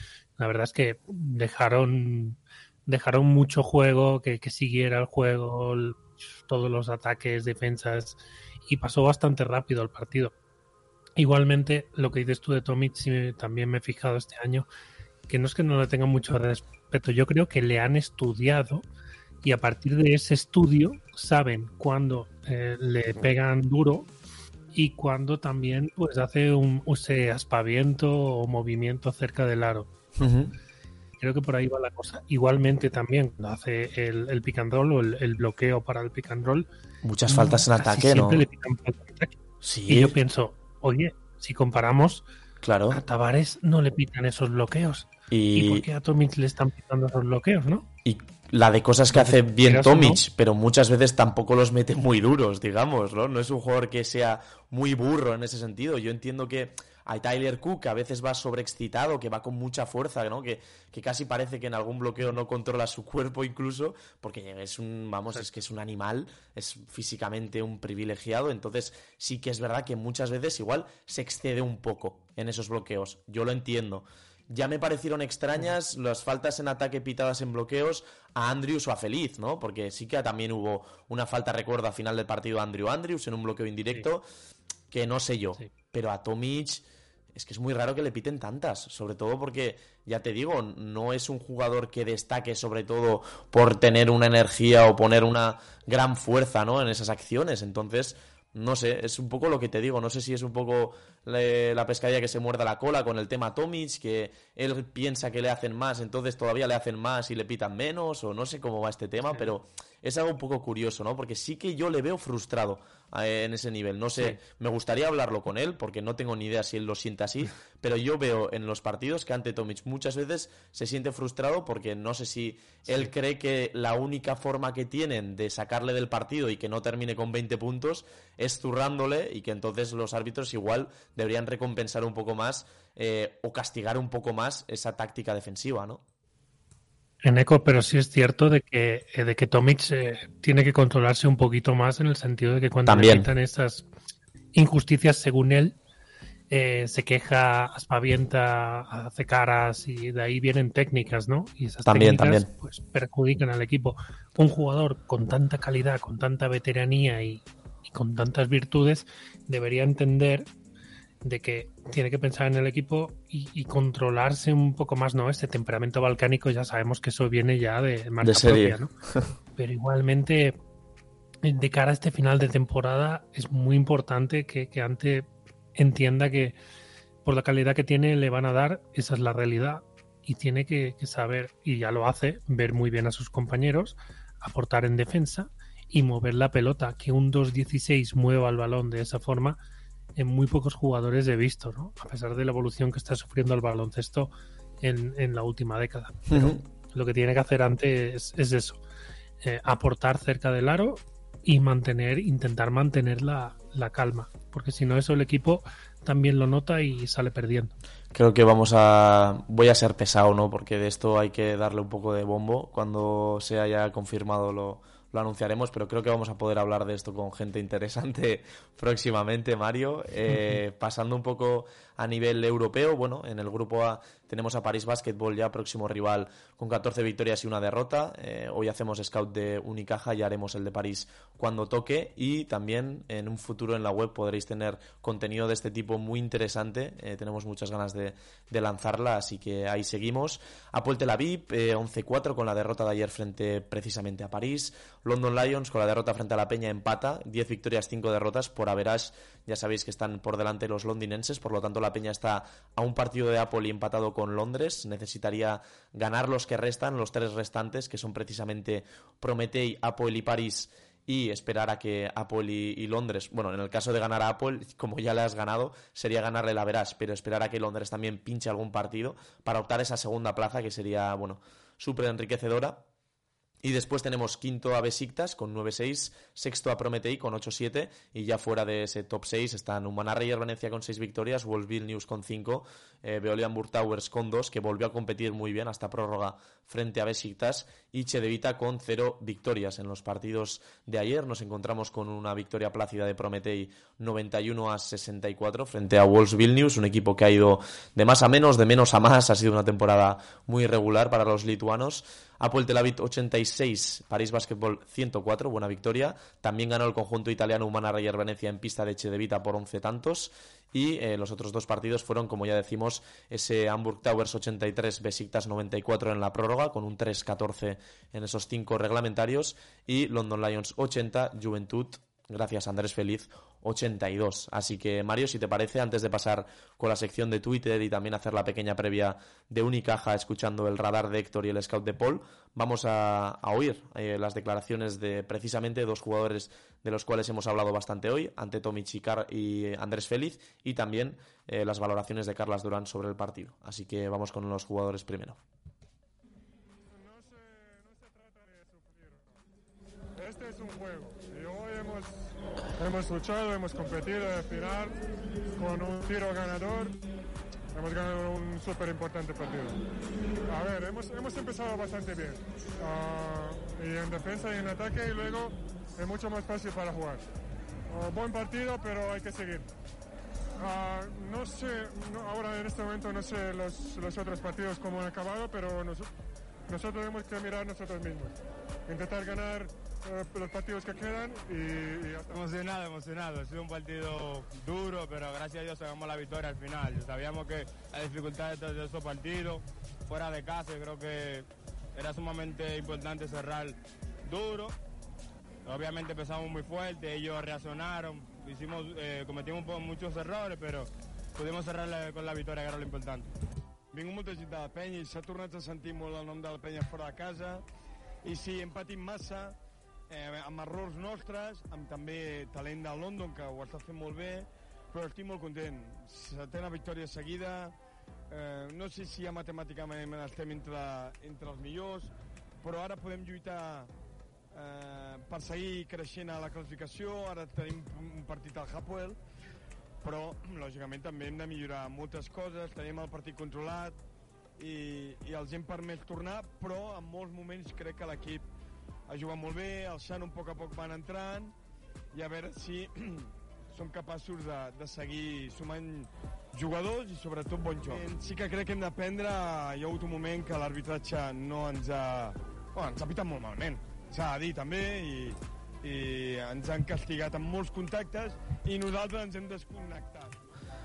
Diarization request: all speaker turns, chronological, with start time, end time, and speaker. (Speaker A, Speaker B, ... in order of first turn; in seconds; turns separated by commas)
Speaker A: 0.4-10.3, Speaker A: 11.2-14.7, Speaker A: 15.3-18.9, Speaker A: 19.4-24.1, Speaker A: 24.7-29.9, Speaker B: 30.2-30.5, Speaker A: 31.2-36.7, Speaker B: 37.0-38.4, Speaker A: 37.3-39.3, Speaker B: 39.6-40.1, Speaker A: 39.9-42.2, Speaker B: 42.6-43.0, Speaker A: 42.9-47.8, Speaker B: 45.3-45.9, Speaker B: 48.0-84.2, Speaker A: 49.1-50.2, Speaker B: 84.9-136.0, Speaker A: 122.8-123.1, Speaker A: 137.2-143.8, Speaker B: 142.8-143.3, Speaker A: 144.5-145.8, Speaker A: 146.5-160.5, Speaker B: 151.8-152.5, Speaker A: 161.2-168.9, Speaker B: 168.2-169.3, Speaker A: 169.5-170.6, Speaker A: 171.4-176.6, Speaker A: 177.2-189.6, Speaker A: 190.2-198.8, Speaker B: 196.3-196.6, Speaker A: 199.4-207.7, Speaker B: 208.1-272.8, Speaker B: 273.6-345.4, Speaker C: 346.9-349.4, Speaker C: 350.2-352.2, Speaker C: 352.8-355.0, Speaker C: 355.5-357.0, Speaker C: 357.7-359.8, Speaker C: 360.5-367.2, Speaker C: 367.9-369.7, Speaker C: 370.6-376.1, Speaker C: 376.7-382.4, Speaker D: 382.3-394.8, Speaker D: 395.6-403.3, Speaker E: 403.9-407.6, Speaker E: 408.2-409.6, Speaker E: 410.1-417.7, Speaker E: 418.3-423.9, Speaker E: 424.5-429.2, Speaker E: 430.0-433.9, Speaker E: 434.6-438.4, Speaker E: 439.1-441.5, Speaker E: 442.1-460.4